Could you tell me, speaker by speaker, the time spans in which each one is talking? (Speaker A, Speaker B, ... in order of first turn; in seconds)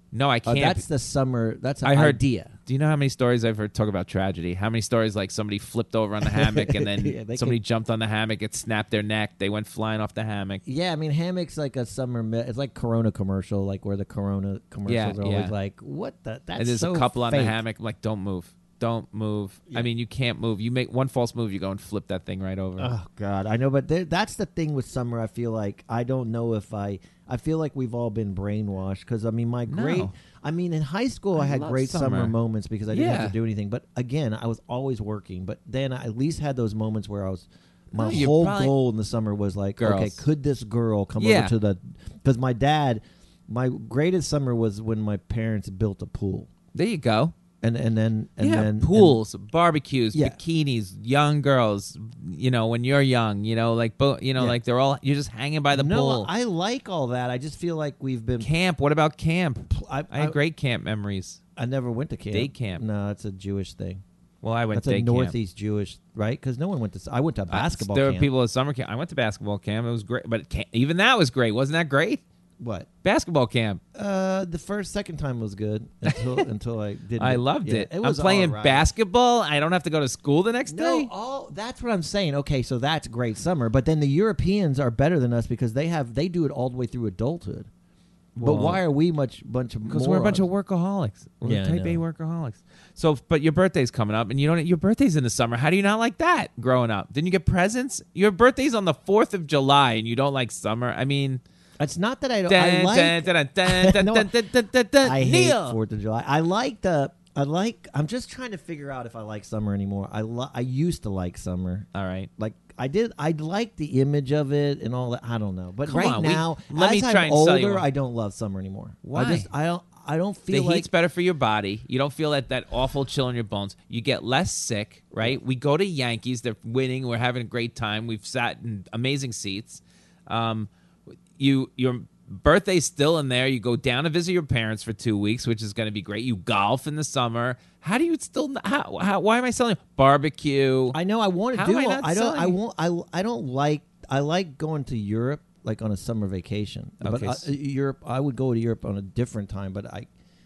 Speaker A: 0.1-0.9, 1.8-10.6, 14.9-15.5, 16.6-22.9, 29.7-30.1, 31.4-32.3, 32.9-33.4, 38.0-38.8, 39.8-40.2, 41.2-41.5, 46.7-47.3, 48.4-56.3, 58.4-61.4, 62.3-62.8, 64.4-65.4, 67.5-72.2, 73.0-73.8, 77.2-81.1, 88.4-88.8, 89.9-101.4, 102.5-105.8, 111.9-112.3, 115.8-117.9, 119.0-119.5, 120.5-130.7, 131.4-141.0, 141.5-142.6, 147.0-147.5
Speaker B: 0.5-2.5, 6.2-7.6, 10.6-17.6, 22.8-46.5, 47.6-49.2, 50.1-50.4, 55.7-58.5, 59.7-60.4, 61.5-64.0, 64.7-68.3, 72.6-72.9, 73.9-78.8, 80.7-87.7, 88.4-90.5, 91.4-92.0, 101.8-104.3, 105.0-120.9, 140.9-150.1